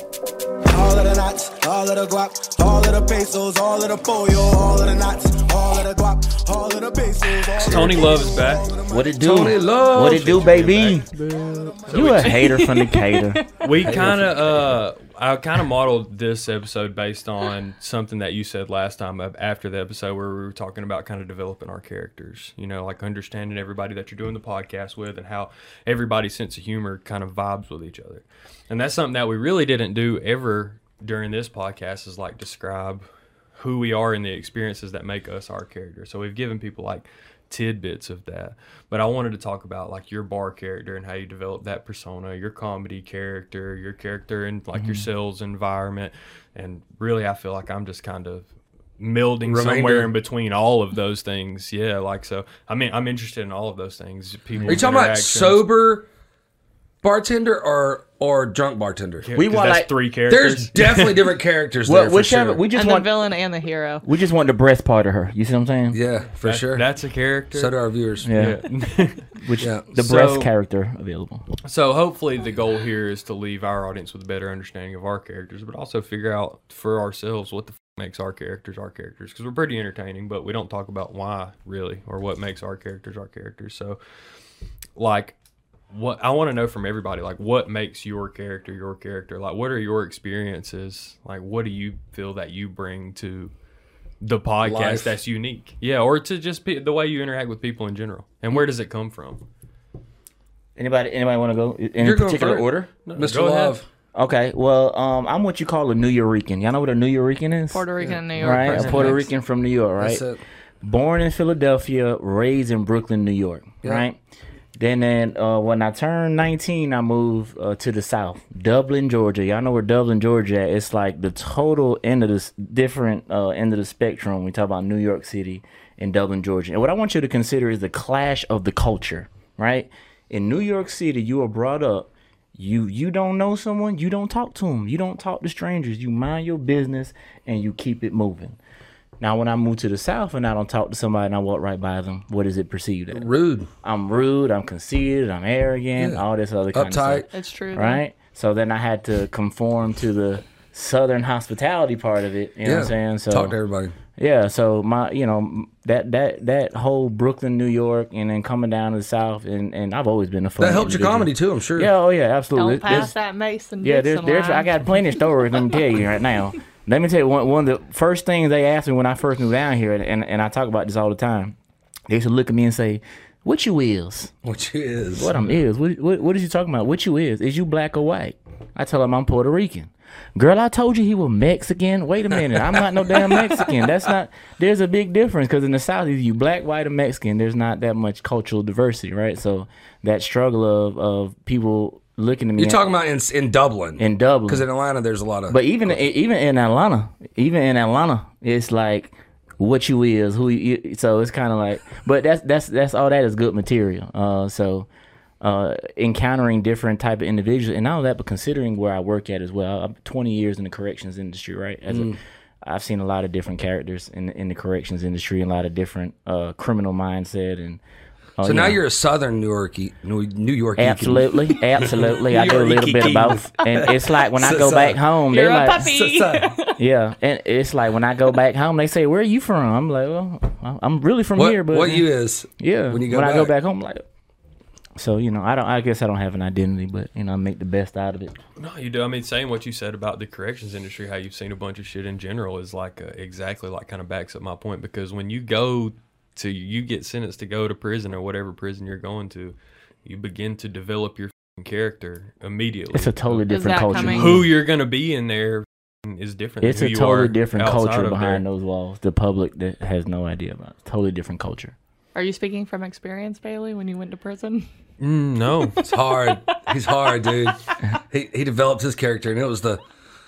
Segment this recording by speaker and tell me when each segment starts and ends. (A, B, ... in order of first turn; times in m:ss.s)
0:00.7-0:10.1 A
0:07.6-0:08.7 B
0:07.6-0:08.1 C
0:08.9-0:11.0 D
0:09.2-0:11.0 C
0:11.1-0:12.4 A
0:11.1-0:12.5 B
0:11.9-0:13.4 D
0:12.2-0:13.5 E
0:13.6-0:48.5 B
0:13.8-0:14.8 C
0:44.7-0:45.0 D
0:49.0-0:55.7 B
0:49.4-0:50.1 C
0:54.6-0:54.8 D
0:54.7-0:56.0 C
0:57.0-0:59.3 C
0:59.2-1:01.3 B
0:59.3-0:59.9 D
1:00.3-1:02.6 C
1:01.8-1:03.1 D
1:02.7-1:04.0 E
1:04.0-1:06.0 D
1:05.9-1:06.8 C
1:06.4-1:07.7 B
1:07.5-1:08.3 C
1:08.2-1:08.6 D
1:08.3-1:09.2 B
1:09.4-1:11.4 D
1:09.6-1:09.8 C
1:09.9-1:10.5 B
1:11.6-1:24.0 B
1:25.0-1:25.4 B
1:25.9-1:33.5 B
1:34.2-1:39.4 B
1:34.6-1:35.1 C
1:40.8-1:42.9 D
1:42.0-1:43.8 C
1:43.0-1:43.8 B
1:44.2-1:47.8 D
1:47.7-1:49.3 E
1:48.4-1:50.2 D
1:48.6-1:49.2 B
1:50.0-1:50.4 C
1:50.8-1:54.2 D
1:54.8-2:18.6 D
2:19.2-2:23.3 D
2:23.1-2:23.7 C
2:23.8-2:33.6 D
2:26.0-2:26.2 C
2:26.7-2:27.3 C
2:27.3-2:28.0 E
2:32.6-2:34.0 C
2:34.1-2:43.1 D
2:40.6-2:41.9 C
2:42.5-2:44.8 E
2:43.8-2:51.5 D
2:52.1-2:54.3 D
2:54.4-2:55.3 C
2:55.1-3:12.8 D
3:03.1-3:03.6 C
3:12.6-3:16.0 C
3:14.0-3:14.6 D
3:15.5-3:24.9 D
3:25.4-3:37.8 D
3:31.9-3:32.2 C
3:38.4-3:38.8 D
3:38.4-3:45.0 C
3:40.8-3:45.9 D
3:45.3-3:46.8 E
3:45.8-3:46.5 C
3:46.8-3:52.1 D
3:51.3-3:53.5 C
3:52.6-3:54.0 D
3:55.0-3:58.3 D
3:58.6-4:18.4 B
4:12.9-4:14.5 D
4:13.5-4:14.4 E
4:16.6-4:21.7 D
4:22.1-4:24.7 E
4:25.0-4:25.8 B
4:25.8-4:29.8 C